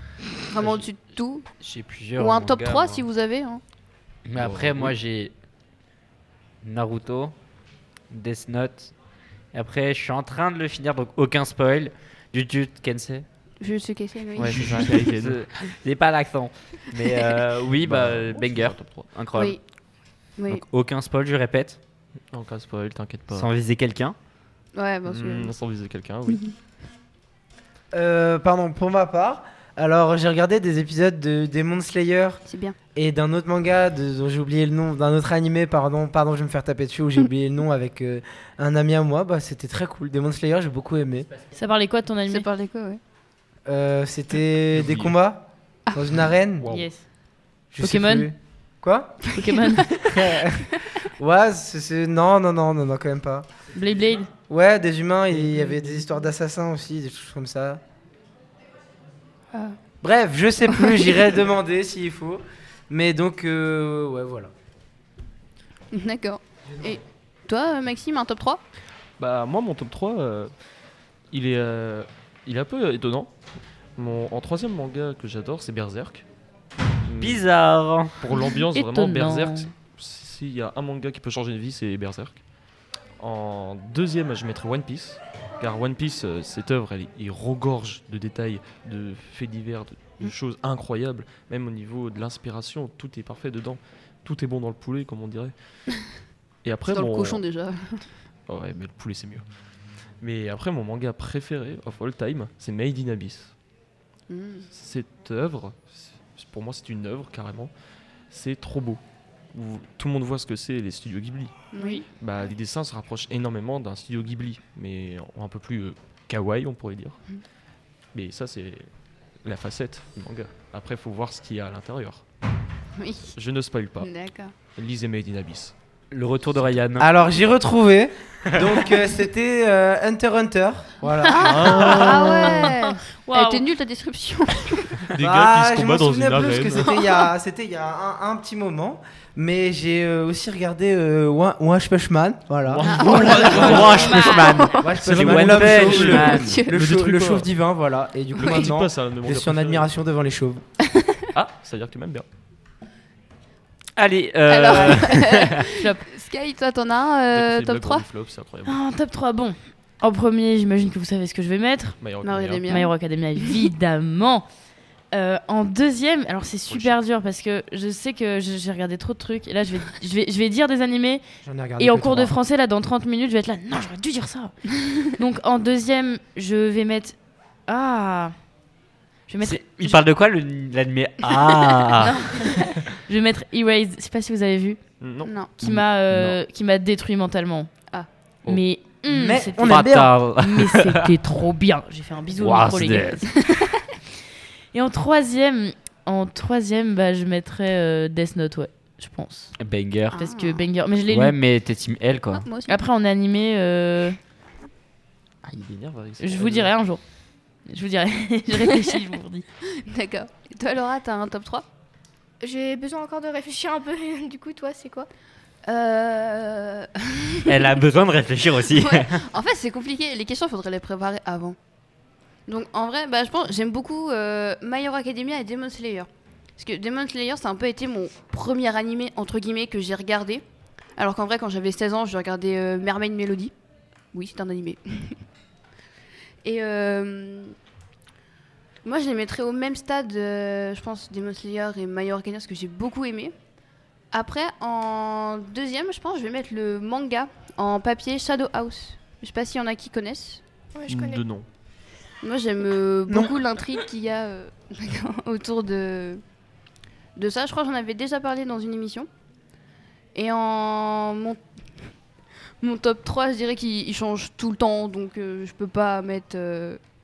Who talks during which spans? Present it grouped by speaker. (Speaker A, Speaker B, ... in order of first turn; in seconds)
Speaker A: 0.5-1.5, 2.1-3.6, 13.6-14.9, 19.3-19.6, 20.4-20.6, 24.7-25.5, 32.5-32.8, 42.2-43.0, 49.6-50.0, 65.9-68.6, 96.9-98.0, 104.3-104.7, 111.7-112.0, 123.0-123.3, 124.0-124.5, 131.3-135.0, 136.4-137.2, 142.8-144.8, 146.0-146.7, 154.4-158.1, 162.2-162.9, 185.2-185.6, 200.1-200.7, 202.3-202.8, 209.8-211.7, 215.6-217.7, 218.7-221.6, 222.5-230.4, 231.0-233.5, 234.1-235.2, 236.4-237.5, 238.8-243.3, 244.1-250.4, 252.2-256.2, 257.1-259.1, 260.1-261.4, 262.6-266.8
Speaker B: 0.6-0.8, 1.6-3.1, 4.2-5.3, 6.6-7.3, 8.1-8.9, 9.5-13.2, 14.4-19.6, 20.5-21.8, 23.3-24.1, 77.2-78.2, 126.1-127.1, 143.5-146.6, 153.9-155.7, 179.4-182.1, 185.6-186.4, 189.6-191.1, 192.4-193.2, 199.6-200.2, 201.1-202.4, 217.5-219.2
Speaker C: 4.3-5.0, 14.3-15.4, 17.8-19.1, 22.3-23.5, 25.0-26.5, 44.7-45.1, 46.6-46.9, 69.2-70.5, 71.3-73.3, 74.0-76.2, 77.0-77.5, 78.2-82.4, 83.2-95.5, 96.6-97.4, 98.5-99.4, 100.2-103.5, 104.7-107.7, 108.3-109.0, 109.5-111.5, 112.2-117.2, 118.1-118.9, 119.4-122.2, 123.3-124.1, 124.7-125.7, 131.4-132.7, 135.0-136.9, 142.6-144.3, 145.1-147.5, 148.3-149.9, 151.3-152.2, 157.3-158.8, 162.0-162.7, 166.7-167.0, 185.0-185.3, 205.4-206.7, 250.9-251.5
Speaker D: 27.9-32.4, 32.9-41.3, 43.6-46.8, 47.7-49.4, 50.0-53.5, 54.5-57.8, 60.0-64.5, 66.7-67.0, 127.0-132.2, 135.1-144.2, 144.7-150.6, 171.4-172.4, 189.1-190.1, 253.1-253.3
Speaker E: 41.5-42.5, 46.7-47.1, 47.8-48.3, 49.3-49.9, 53.7-54.3, 78.3-79.7, 111.8-112.0, 131.5-133.7, 143.4-144.8, 155.7-156.0, 158.7-161.9, 162.7-164.4, 165.1-171.2, 171.8-177.2, 177.7-178.3, 179.3-180.0, 182.0-184.8, 185.6-187.7, 188.4-189.8, 190.4-193.3, 194.7-199.5, 200.1-201.3, 202.7-204.2, 206.2-207.0, 207.7-209.4
Speaker F: 212.4-215.1, 250.7-251.2